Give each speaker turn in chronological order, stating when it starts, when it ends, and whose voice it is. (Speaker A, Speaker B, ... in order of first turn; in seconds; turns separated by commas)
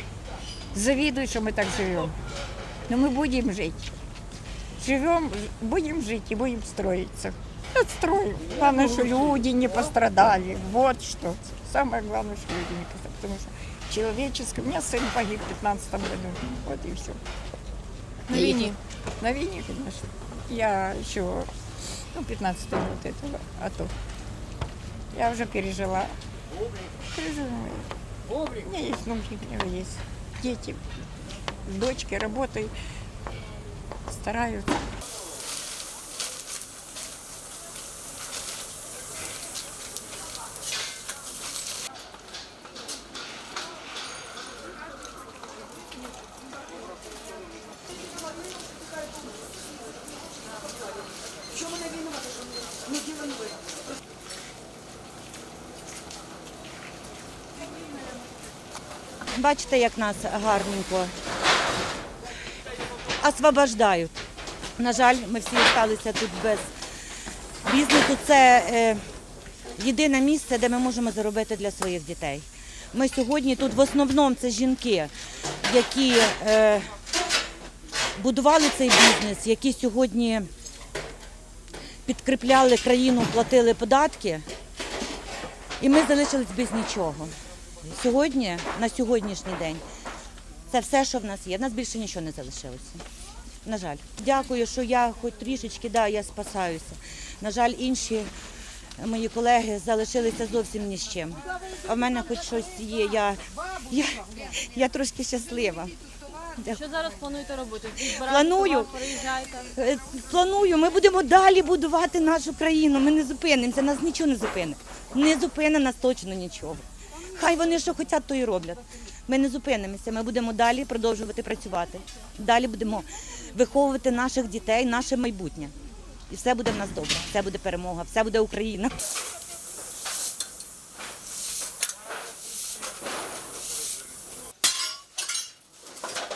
Speaker A: 0.7-2.1, Speaker A: 2.9-3.9, Speaker A: 4.8-17.2, Speaker A: 18.3-21.5, Speaker B: 18.3-18.6, Speaker A: 22.1-23.9, Speaker A: 25.1-26.1, Speaker A: 27.1-27.9, Speaker A: 28.6-30.8, Speaker A: 31.6-32.7, Speaker A: 34.1-34.9, Speaker B: 59.3-61.1, Speaker B: 63.2-64.2, Speaker B: 64.8-66.7, Speaker B: 67.6-69.0, Speaker B: 69.8-75.1, Speaker B: 75.6-76.9, Speaker B: 78.2-80.5, Speaker B: 82.0-84.4, Speaker B: 85.8-87.3, Speaker B: 87.8-89.8, Speaker B: 90.7-93.0, Speaker B: 93.6-98.3, Speaker B: 99.0-105.9, Speaker B: 106.6-106.9, Speaker C: 106.7-109.6, Speaker B: 108.0-109.1, Speaker B: 109.8-116.8, Speaker B: 117.3-125.7, Speaker B: 126.3-128.9